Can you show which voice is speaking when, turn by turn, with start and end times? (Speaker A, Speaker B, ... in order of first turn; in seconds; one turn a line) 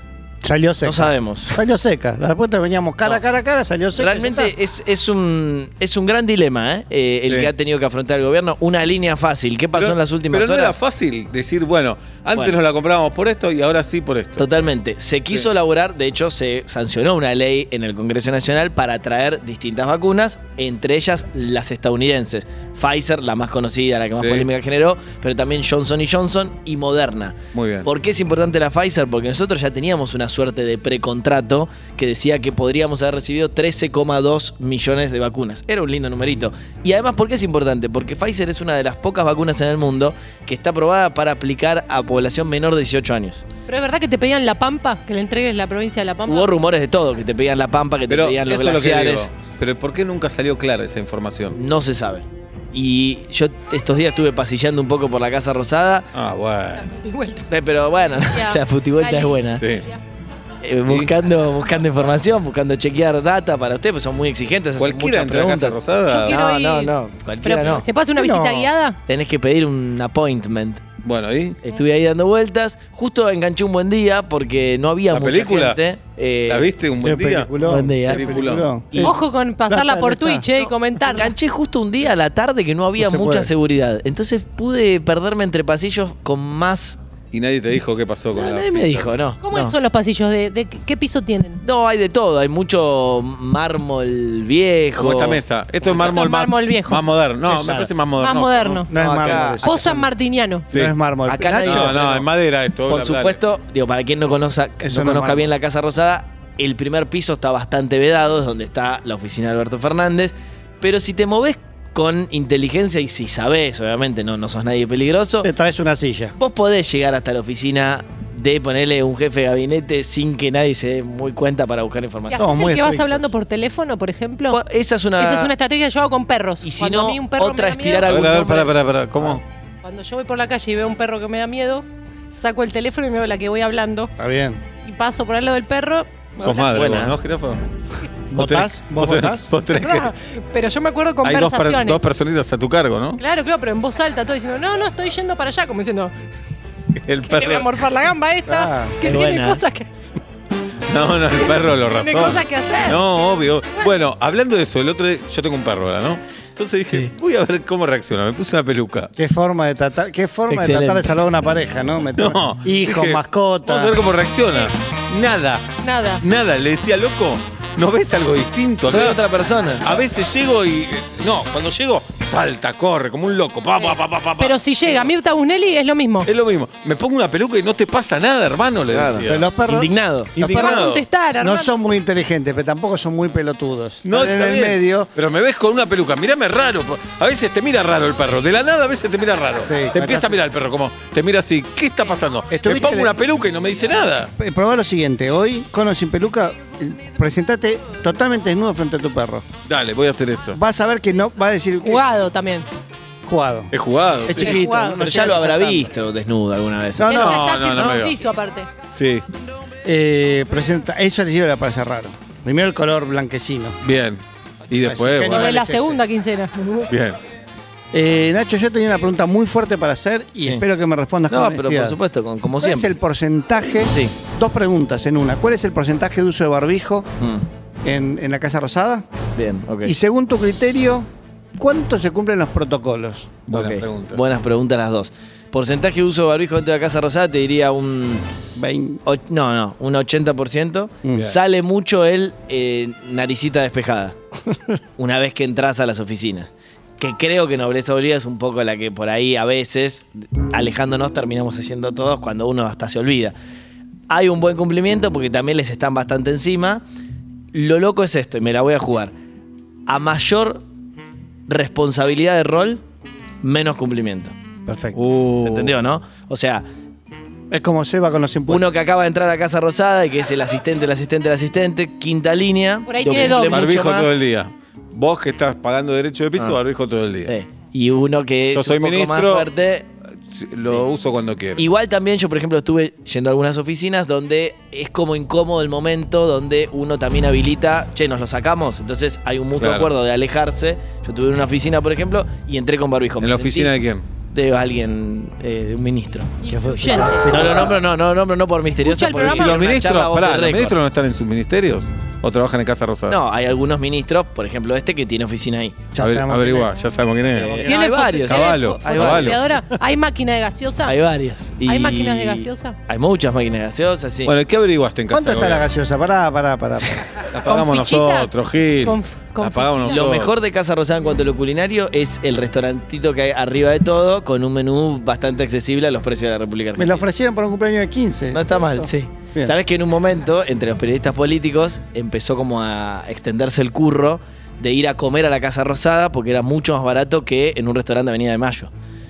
Speaker A: 0.4-4.5
Speaker B: 0.8-1.6
Speaker B: 4.0-10.7
Speaker C: 7.2-7.5
Speaker C: 9.7-14.4
Speaker B: 14.4-43.4
Speaker C: 24.1-24.5
Speaker C: 27.5-27.9
Speaker D: 43.7-46.5
Speaker B: 46.3-49.3
Speaker C: 48.1-51.6
Speaker B: 51.5-56.1
Speaker C: 56.1-56.9
Speaker D: 56.9-57.4
Speaker B: 57.5-59.6
Speaker D: 58.3-60.0
Speaker C: 59.5-59.9
Speaker B: 60.6-67.8
Speaker C: 64.8-66.4
Speaker D: 66.0-69.0
Speaker A: 68.2-68.7
Speaker B: 69.1-70.8
Speaker C: 71.0-71.6
Speaker B: 71.6-76.7
Speaker C: 75.1-75.8
Speaker C: 76.5-78.7
Speaker A: 77.0-79.2
Speaker B: 77.6-79.1
Speaker D: 78.9-81.3
Speaker A: 79.7-80.5
Speaker B: 80.6-87.0
Speaker A: 83.0-83.5
Speaker C: 87.3-89.1
Speaker B: 88.3-89.7
Speaker D: 89.4-91.6
Speaker B: 91.6-96.2
Speaker C: 95.0-98.9
Speaker D: 95.9-97.0
Speaker A: 97.5-97.9
Speaker D: 98.2-98.9
Speaker A: 98.9-100.1
Speaker B: 98.9-99.8
Speaker D: 99.6-100.7
Speaker A: 100.7-102.0
Speaker B: 101.3-102.3
Speaker C: 101.6-103.4
Speaker B: 102.9-115.5
Speaker A: 104.8-105.5
Speaker A: 115.4-116.3
Speaker B: 116.4-122.7
Speaker D: 122.3-124.6
Speaker A: 122.3-123.2
Speaker B: 124.5-125.5
Speaker D: 125.2-128.3
Speaker B: 126.6-128.7
Speaker C: 128.0-129.4
Speaker D: 129.8-134.1
Speaker A: 134.2-134.6
Speaker D: 134.8-137.0
Speaker C: 136.4-137.7
Speaker B: 136.7-137.2
Speaker C: 138.3-140.1
Speaker A: 138.3-139.5
Speaker D: 139.7-142.0
Speaker C: 141.2-143.2
Speaker D: 143.2-146.1
Speaker C: 147.0-147.7
Speaker D: 147.2-150.1
Speaker A: 148.4-149.0
Speaker B: 149.0-149.6
Speaker C: 150.9-159.1
Speaker D: 151.9-153.0
Speaker A: 159.2-163.9
Speaker B: 160.5-161.1
Speaker C: 162.2-169.2
Speaker D: 165.8-166.2
Speaker B: 168.8-169.9
Speaker C: 169.8-175.1
Speaker D: 173.8-176.3
Speaker C: 176.2-179.5
Speaker B: 178.9-180.3
Speaker A: 179.2-180.8
Speaker C: 180.3-181.0
Speaker D: 180.4-181.7
Speaker A: 181.4-185.1
Speaker C: 184.0-194.3
Speaker A: 189.7-190.4
Speaker A: 192.5-193.1
Speaker A: 194.4-199.5
Speaker C: 199.7-200.6
Speaker A: 200.5-202.0
Speaker D: 201.8-202.7
Speaker A: 203.2-203.7
Speaker C: 203.7-204.6
Speaker A: 204.2-205.9
Speaker D: 204.3-205.0
Speaker B: 204.9-207.4
Speaker A: 207.0-207.3
Speaker C: 207.1-208.2
Speaker D: 207.1-208.7
Speaker C: 208.9-209.2
Speaker A: 209.8-213.8
Speaker C: 213.8-215.5
Speaker A: 214.8-216.0
Speaker D: 215.2-216.9
Speaker C: 216.9-217.2
Speaker A: 217.9-222.0
Speaker B: 221.3-222.9
Speaker A: 222.6-227.1
Speaker B: 223.9-224.1
Speaker B: 227.2-227.4
Speaker A: 227.8-229.1
Speaker B: 229.3-229.9
Speaker A: 229.8-233.3
Speaker B: 233.5-238.2
Speaker C: 233.5-234.2
Speaker A: 238.5-239.0
Speaker B: 239.0-244.2
Speaker A: 241.0-241.3
Speaker B: 245.0-253.3
Speaker B: 254.1-256.8
Speaker B: 257.5-259.1
Speaker B: 259.9-260.6
Speaker B: 261.5-262.8
Speaker B: 263.4-264.3
Speaker A: 264.6-265.0
Speaker C: 264.9-265.7
Speaker B: 265.4-266.6
Speaker A: 267.5-268.6
Speaker B: 268.5-274.2
Speaker D: 272.9-273.6
Speaker C: 273.1-277.3
Speaker B: 277.2-279.9
Speaker C: 278.5-279.5
Speaker C: 280.2-281.6
Speaker B: 281.6-293.8
Speaker C: 289.6-289.9
Speaker C: 293.2-294.0
Speaker B: 294.3-296.3
Speaker D: 296.4-297.3
Speaker A: 296.4-297.8
Speaker B: 297.3-300.8
Speaker D: 298.8-299.6
Speaker C: 299.1-303.2
Speaker B: 303.1-305.9
Speaker A: 305.9-306.7
Speaker C: 306.0-307.6
Speaker A: 307.3-307.7
Speaker B: 307.3-309.5
Speaker D: 307.6-311.0
Speaker C: 308.2-309.5
Speaker B: 310.8-314.3
Speaker D: 311.6-312.8
Speaker C: 314.2-315.7
Speaker A: 315.1-317.0
Speaker C: 317.3-320.3
Speaker D: 317.4-320.0
Speaker B: 319.9-327.1
Speaker A: 326.8-329.5
Speaker B: 328.3-338.7